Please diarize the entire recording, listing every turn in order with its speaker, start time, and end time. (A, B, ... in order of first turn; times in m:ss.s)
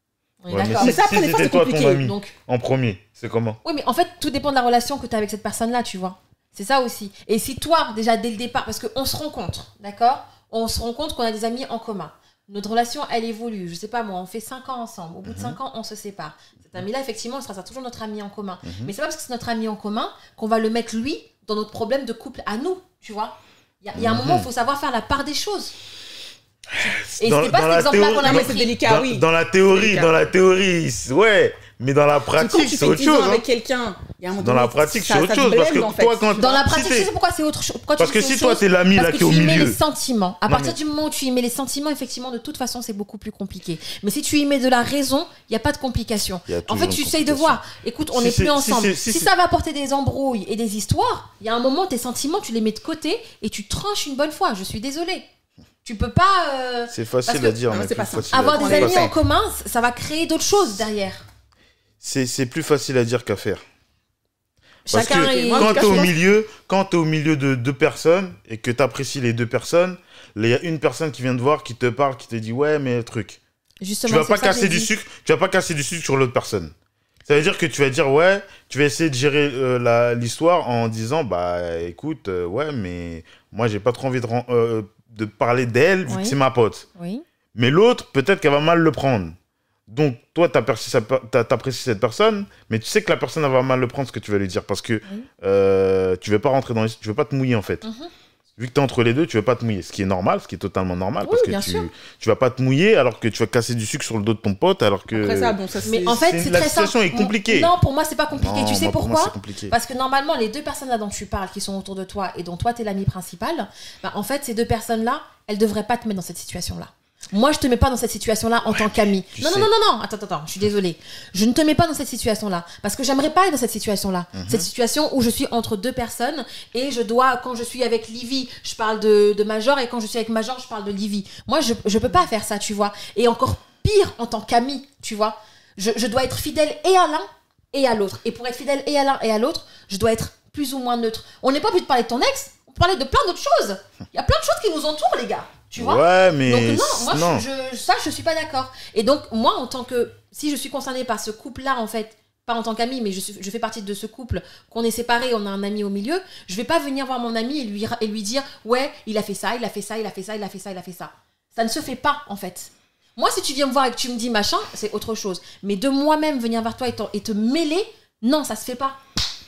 0:00.4-0:01.0 A
0:00.5-0:03.6 B
0:00.8-0:02.1 C
0:02.0-0:02.4 A
0:03.6-0:25.7 A
0:15.2-0:15.6 B
0:18.6-0:18.9 B
0:24.0-0:24.5 B
0:26.7-0:33.4 B
0:27.2-0:28.8 A
0:28.2-0:30.1 C
0:32.4-0:36.5 C
0:34.4-0:37.1 B
0:36.4-0:55.3 A
0:38.0-0:39.8 B
0:40.5-0:40.8 B
0:46.5-0:47.6 B
0:48.1-0:49.3 B
0:55.8-0:57.6 A
0:56.9-0:59.1 B
0:57.7-0:59.2 C
0:58.3-1:01.2 A
1:02.0-1:03.6 B
1:04.9-1:06.1 A
1:04.9-1:13.4 B
1:04.9-1:06.1 C
1:13.8-1:14.9 A
1:14.0-1:16.7 B
1:17.3-1:26.9 B
1:26.1-1:26.4 A
1:27.0-1:27.2 A
1:27.6-1:29.4 B
1:29.9-1:37.8 B
1:37.8-1:38.1 A
1:38.6-1:45.6 B
1:41.2-1:41.9 A
1:45.1-1:46.3 C
1:45.8-2:49.0 A
1:46.1-1:47.7 B
1:48.4-1:49.7 B
1:58.7-1:59.7 B
2:04.4-2:04.7 B
2:25.7-2:27.4 B